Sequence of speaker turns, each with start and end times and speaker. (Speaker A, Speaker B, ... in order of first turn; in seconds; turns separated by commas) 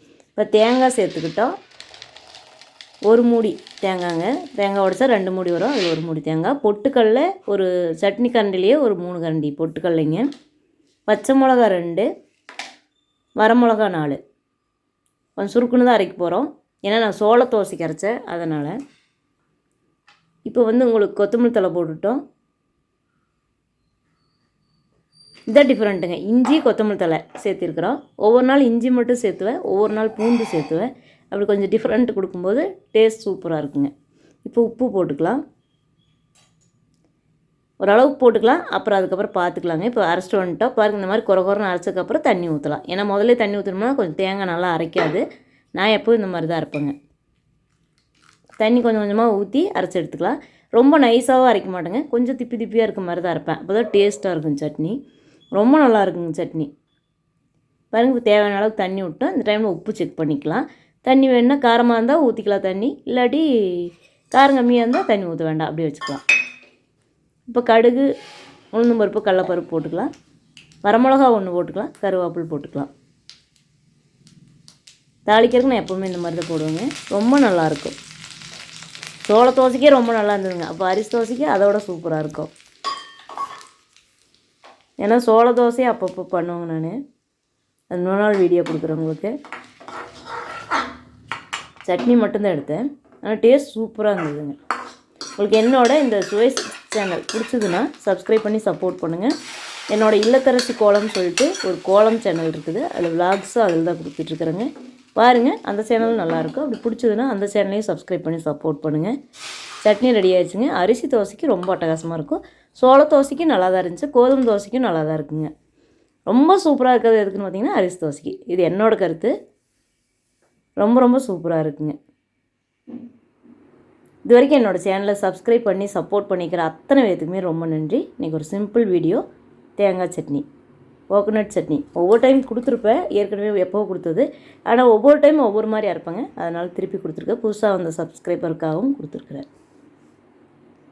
Speaker A: 0.3-1.5, Speaker A: 3.1-10.3, Speaker A: 11.1-12.1, Speaker A: 13.4-14.2, Speaker A: 15.4-18.8, Speaker A: 20.4-22.2, Speaker A: 25.5-33.9, Speaker A: 34.4-35.4, Speaker A: 37.8-45.2, Speaker A: 45.7-46.9, Speaker A: 48.6-55.0, Speaker A: 55.5-56.7, Speaker A: 57.9-66.2, Speaker A: 67.5-68.1, Speaker A: 68.7-70.1, Speaker A: 70.8-72.9, Speaker A: 75.2-78.0, Speaker A: 79.2-82.5, Speaker A: 85.0-87.0, Speaker A: 87.9-89.3, Speaker A: 91.8-94.6, Speaker A: 95.4-99.3, Speaker A: 99.9-109.1, Speaker A: 109.8-115.5, Speaker A: 116.3-119.3, Speaker A: 120.8-122.0, Speaker A: 124.2-129.2, Speaker A: 129.8-130.4, Speaker A: 131.1-139.5